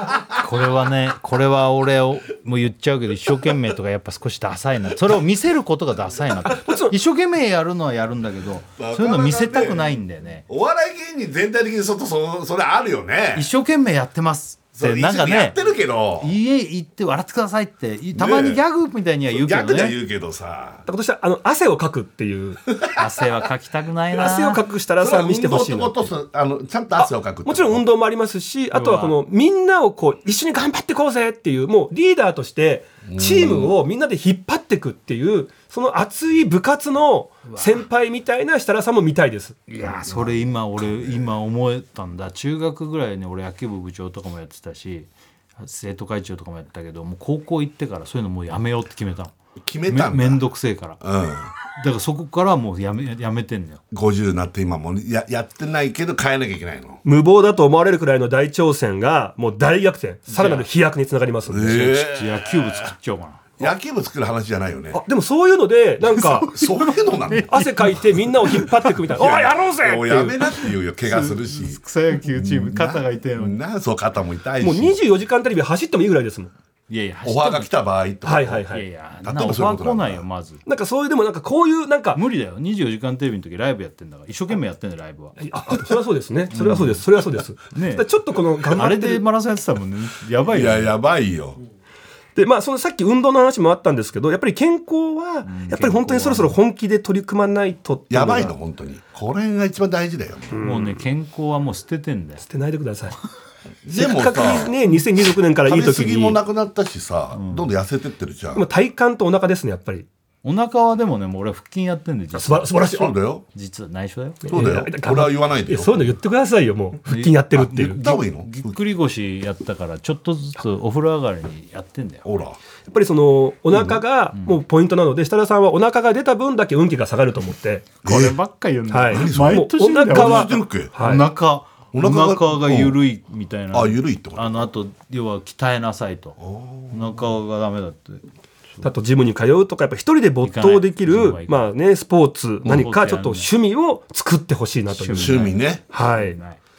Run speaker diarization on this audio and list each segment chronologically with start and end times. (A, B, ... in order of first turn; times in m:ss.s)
0:00.4-0:10.4 A
0:06.4-0:06.9 B
0:08.8-0:09.9 C
0:10.5-0:13.5 C
0:13.3-0:15.6 A
0:14.7-0:16.3 C
0:16.2-0:20.0 A
0:18.1-0:18.6 C
0:19.3-0:20.8 C
0:20.8-0:22.6 B
0:22.9-0:24.6 A
0:24.2-0:26.1 B
0:25.0-0:27.8 C
0:27.0-0:39.6 B
0:28.7-0:29.2 A
0:33.0-0:33.8 C
0:37.5-0:37.8 A
0:39.7-0:49.3 A
0:39.8-0:41.2 C
0:49.6-0:50.4 C
0:49.9-0:51.0 A
0:51.0-0:51.5 C
0:51.8-0:53.8 A
0:53.9-0:57.0 C
0:57.0-1:01.9 B
1:00.3-1:00.7 A
1:01.5-1:02.9 C
1:01.9-1:03.5 A
1:03.6-1:05.0 C
1:04.9-1:06.5 B
1:06.1-1:08.9 A
1:06.5-1:07.6 C
1:07.5-1:10.5 B
1:09.2-1:15.0 C
1:11.0-1:13.6 A
1:14.6-1:16.5 B
1:16.9-1:17.7 A
1:17.2-1:18.7 C
1:18.2-1:18.8 B
1:18.7-1:20.6 A
1:19.2-1:20.2 C
1:20.6-1:22.2 B
1:22.1-1:25.4 A
1:25.4-1:29.2 B
1:26.5-1:27.0 A
1:27.7-1:28.1 A
1:28.7-1:30.9 A
1:30.5-1:31.6 C
1:32.4-1:38.5 B
1:35.4-1:36.6 A
1:38.1-1:40.6 C
1:40.5-1:41.0 B
1:40.6-1:42.4 A
1:42.4-1:43.2 B
1:43.8-1:44.8 C
1:43.9-1:46.4 B
1:45.6-1:48.6 C
1:47.3-1:47.7 A
1:48.5-1:50.1 B
1:50.4-1:52.8 A
1:52.3-1:53.1 B
1:52.8-1:53.4 C
1:53.5-1:54.5 A
1:54.4-1:58.0 B
1:54.5-1:56.1 C
1:57.1-2:02.2 A
1:57.9-1:58.8 C
2:02.2-2:02.6 C
2:02.9-2:07.9 B
2:03.7-2:04.0 C
2:04.3-2:04.6 A
2:08.0-2:16.4 A
2:08.0-2:08.4 C
2:08.9-2:11.2 B
2:09.1-2:10.9 C
2:11.9-2:13.0 C
2:13.7-2:14.7 C
2:16.4-2:17.2 C
2:16.9-2:18.2 A
2:18.8-2:26.4 B
2:20.4-2:21.7 A
2:22.6-2:23.5 A
2:24.9-2:26.6 A
2:25.2-2:25.8 C